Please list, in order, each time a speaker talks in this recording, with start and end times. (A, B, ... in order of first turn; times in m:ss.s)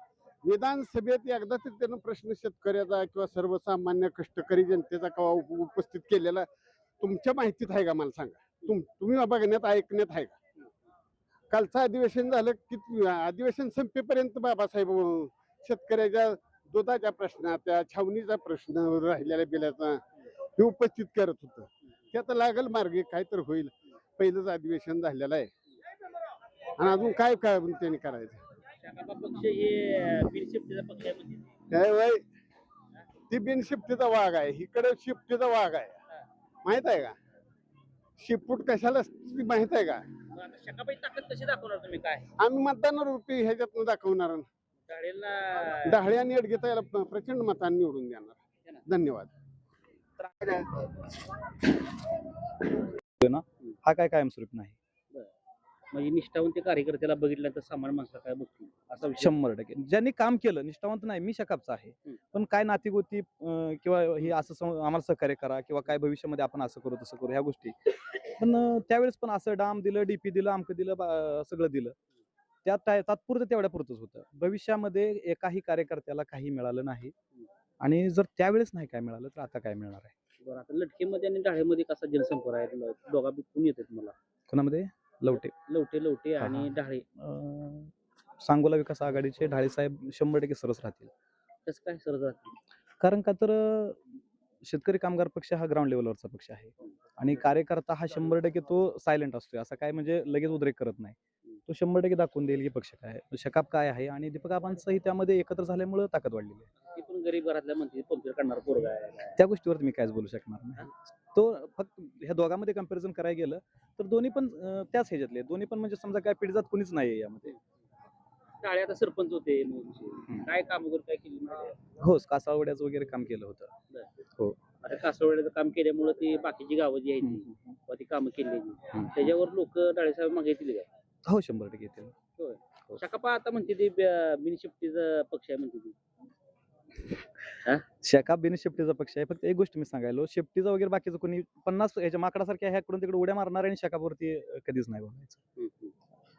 0:00.4-0:06.5 A
0:07.0-0:10.4 A
0:11.5-0:20.0 A
0:20.6-0:25.5 A
0:26.8-0:28.4 A
0:28.8-0:31.5 B
0:31.7-0:32.2 A
0:33.3-0:36.0 A
0:36.6-0:37.1 A
0:38.2-0:40.0 A
0:40.3-0:42.3 B
0:42.4-0:44.4 A
0:44.9-0:46.0 B
0:45.8-0:49.3 A
0:50.2-0:50.6 B
0:53.2-0:54.8 C
0:55.9-0:59.3 B
0:59.2-1:11.9 C
1:12.6-1:17.1 C
1:17.8-1:20.1 C
1:20.4-1:24.1 B
1:24.5-1:25.5 C
1:25.3-1:27.0 B
1:26.4-1:31.1 C
1:31.7-1:32.6 B
1:33.0-1:34.0 C
1:34.6-1:41.2 C
1:41.7-1:46.7 C
1:46.9-1:49.4 B
1:49.4-1:57.5 C
1:58.6-2:01.7 B
2:02.0-2:03.7 C
2:04.8-2:10.9 B
2:07.2-2:07.6 C
2:11.2-2:12.1 C
2:12.4-2:16.0 B
2:18.0-2:25.4 C
2:25.6-2:25.9 B